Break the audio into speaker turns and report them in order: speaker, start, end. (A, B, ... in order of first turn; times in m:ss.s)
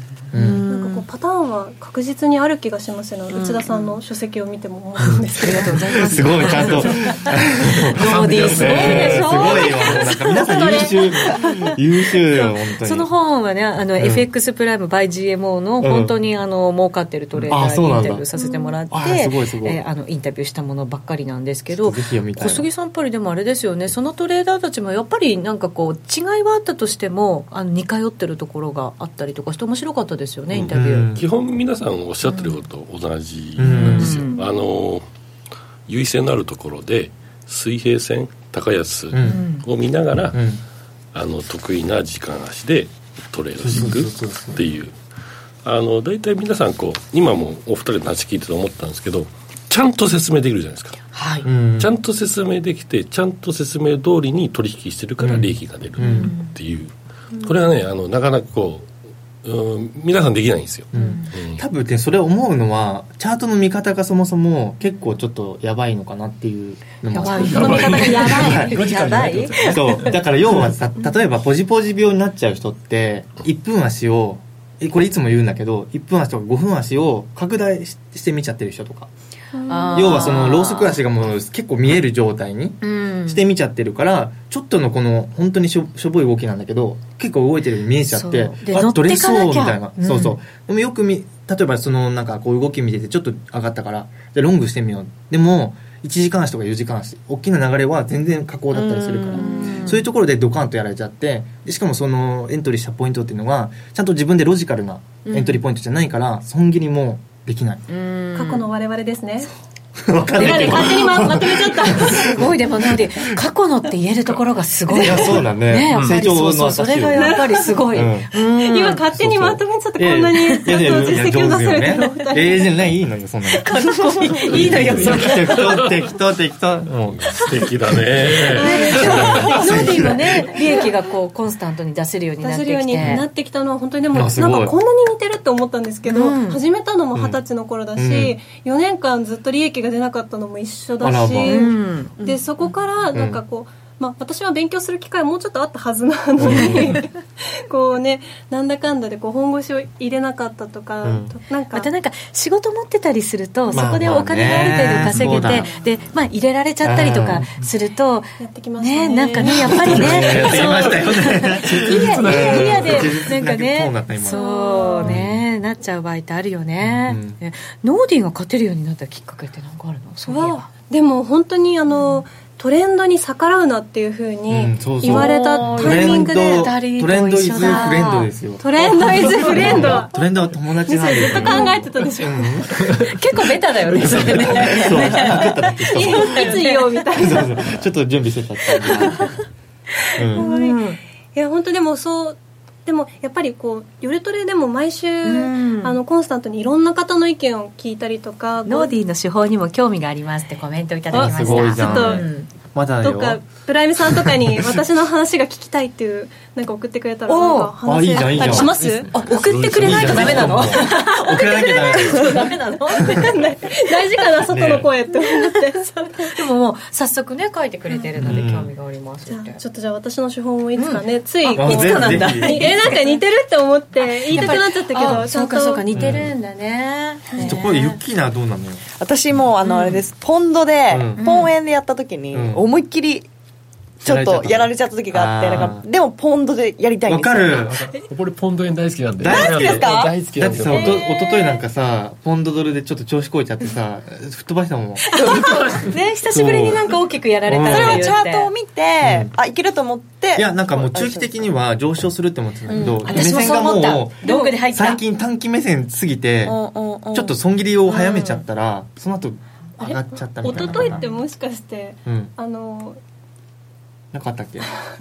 0:00.3-0:01.0 A
0:00.3-0:00.6 B
0:00.4-0:01.0 C
0:00.7-0:06.8 D
0:03.3-0:04.0 A
0:05.0-0:13.1 B
0:05.4-0:10.9 A
0:08.0-0:09.3 E
0:08.2-0:08.5 F
0:09.0-0:11.8 D
0:12.3-0:31.1 A
0:14.0-0:14.3 B
0:15.8-0:16.1 B
0:17.5-0:18.3 B
0:18.3-0:18.8 D
0:18.9-0:19.8 B
0:21.7-0:22.7 B
0:30.5-0:35.0 F
0:30.7-0:31.2 B
0:32.2-0:32.6 A
0:33.6-0:34.2 B
0:33.6-0:34.4 A
0:35.9-0:40.4 F
0:39.1-0:39.4 B
0:39.2-0:39.7 A
0:40.3-0:40.6 B
0:41.1-0:45.0 F
0:43.6-0:44.7 B
0:45.6-0:51.0 F
0:51.1-0:51.5 A
0:51.4-0:51.9 B
0:51.8-0:58.9 F
0:55.2-0:56.3 B
0:56.0-0:56.5 A
0:59.4-1:01.6 F
1:00.9-1:08.8 B
1:00.9-1:01.3 A
1:07.1-1:10.2 A
1:07.2-1:08.7 D
1:07.6-1:10.2 E
1:09.6-1:19.1 B
1:19.5-1:20.3 D
1:19.6-1:21.0 A
1:19.9-1:47.8 B
1:22.8-1:23.4 A
1:28.1-1:30.4 A
1:38.7-1:39.4 C
1:39.3-1:40.0 A
1:45.2-1:45.6 A
1:47.9-1:48.7 A
1:48.3-1:49.5 D
1:50.0-1:53.0 B
1:50.3-1:52.4 D
1:50.4-1:59.1 A
1:54.9-1:58.3 B
1:55.9-1:56.2 E
1:57.1-1:57.9 D
1:58.6-2:02.7 D
1:59.1-2:03.7 B
2:00.4-2:01.2 A
2:03.5-2:05.6 A
2:04.4-2:08.4 B
2:04.5-2:06.0 F
2:07.2-2:09.8 F
2:08.4-2:10.9 D
2:08.5-2:13.2 A
2:09.0-2:10.2 B
2:12.4-2:27.2 D
2:13.0-2:13.3 B
2:14.1-2:14.7 B
2:16.0-2:16.6 A
2:17.1-2:17.4 B
2:17.9-2:18.4 B
2:21.0-2:21.7 B
2:21.4-2:22.4 A
2:23.1-2:23.4 B
2:26.4-2:27.0 B
2:26.4-2:27.0 A
2:27.7-2:31.9 D
2:31.0-2:31.3 B
2:31.7-2:50.7 A
2:33.7-2:34.0 D
2:33.7-2:35.7 B
2:36.8-2:37.5 B
2:38.4-2:40.5 D
2:39.6-2:44.4 B
2:40.0-2:43.0 E
2:44.2-2:45.2 D
2:45.0-2:45.4 B
2:46.8-2:47.4 B
2:50.2-2:56.7 D
2:51.9-2:52.2 A
2:54.5-3:03.0 B
2:55.0-2:58.3 A
2:57.6-2:58.0 D
2:58.6-3:02.6 D
2:59.0-3:00.0 A
3:01.4-3:01.8 A
3:02.8-3:07.0 A
3:04.0-3:06.6 B
3:05.8-3:07.6 D
3:07.1-3:09.4 B
3:08.7-3:09.2 A
3:10.2-3:10.5 B
3:10.3-3:11.0 A
3:10.3-3:10.8 D
3:11.3-3:19.0 D
3:15.2-3:16.0 A
3:18.6-3:22.5 A
3:21.1-3:22.3 D
3:21.1-3:23.5 B
3:23.0-3:29.1 D
3:24.0-3:24.7 B
3:27.3-3:27.7 A
3:27.8-3:28.8 B
3:28.4-3:33.7 A
3:28.8-3:30.3 E
3:29.3-3:30.6 F
3:29.8-3:32.5 B
3:30.6-3:36.3 D
3:34.5-3:34.9 B
3:35.3-3:39.6 A
3:38.2-3:38.7 B
3:39.3-3:46.1 D
3:40.7-3:43.2 A
3:41.5-3:42.8 B
3:44.0-3:48.0 A
3:44.3-3:44.6 B
3:45.9-3:46.3 B
3:47.4-3:48.8 B
3:49.0-3:53.3 C
3:49.6-3:50.0 A
3:50.9-3:51.2 B
3:51.2-3:51.5 A
3:52.3-3:52.6 B
3:54.0-3:57.7 C
3:54.0-3:55.8 B
3:57.1-3:57.9 B
3:57.7-4:01.0 E
3:59.2-4:05.1 B
3:59.3-4:01.0 C
4:05.1-4:08.5 A
4:05.5-4:05.9 E
4:06.3-4:08.2 B
4:07.7-4:11.4 C
4:09.0-4:09.3 B
4:10.4-4:21.1 B
4:12.7-4:13.7 C
4:12.8-4:15.0 A
4:16.4-4:17.4 C
4:17.9-4:18.4 A
4:20.4-4:23.0 D
4:20.4-4:21.1 A
4:22.0-4:22.3 B
4:24.1-4:24.7 B